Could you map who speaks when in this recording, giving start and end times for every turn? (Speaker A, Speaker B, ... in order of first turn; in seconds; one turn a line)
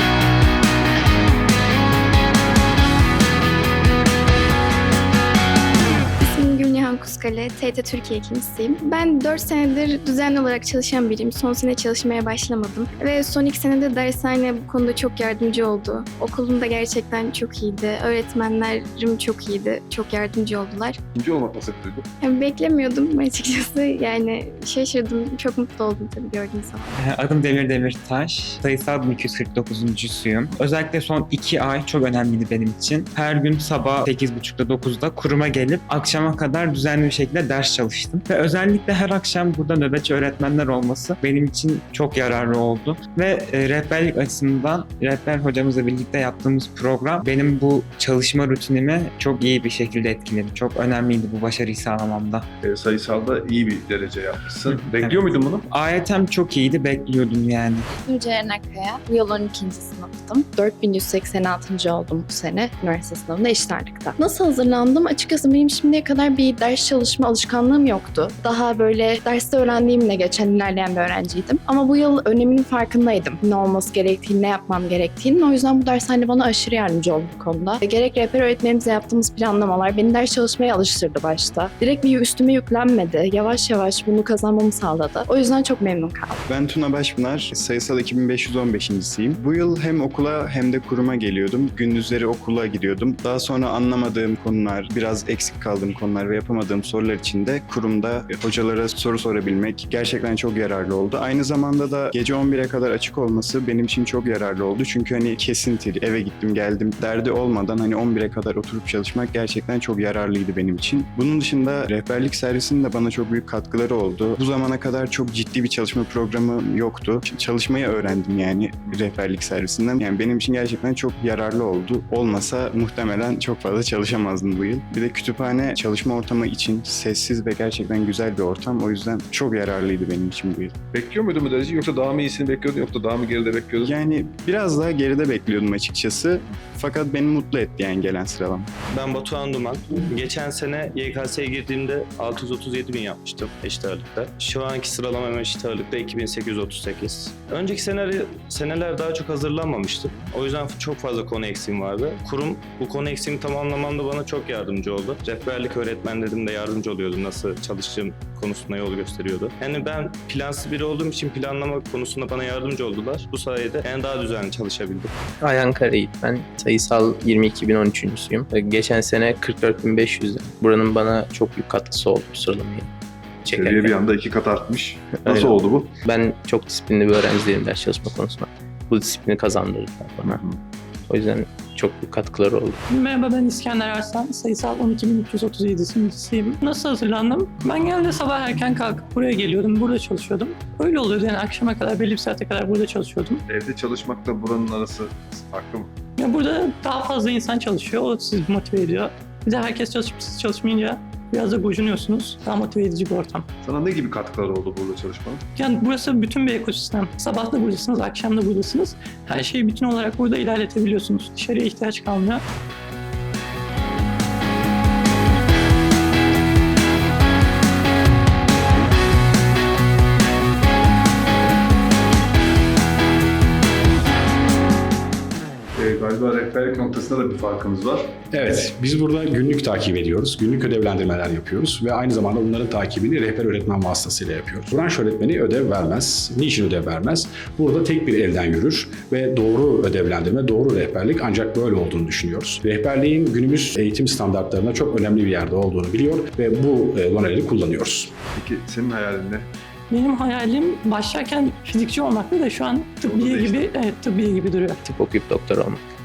Speaker A: 6.2-21.0
Speaker B: 21.1-22.1
Speaker A: 22.2-26.9
Speaker C: 26.9-52.5
Speaker B: 52.6-55.7
Speaker C: 54.7-57.9
Speaker D: 57.9-86.4
Speaker E: 86.5-130.7
Speaker B: 130.9-134.0
Speaker E: 133.8-138.7
Speaker F: 138.9-165.1
Speaker G: 165.4-172.9
Speaker G: 173.4-174.0
Speaker B: 173.5-175.9
Speaker G: 175.1-180.4
Speaker B: 180.2-180.6
Speaker G: 181.1-182.8
Speaker H: 182.9-193.4
Speaker B: 193.5-195.9
Speaker H: 196.2-203.4
Speaker B: 203.6-205.4
Speaker H: 205.5-212.4
Speaker B: 225.7-228.1
Speaker I: 228.3-248.1
Speaker B: 248.3-249.5
Speaker H: 249.9-254.8
Speaker B: 253.0-253.7
Speaker G: 254.8-255.8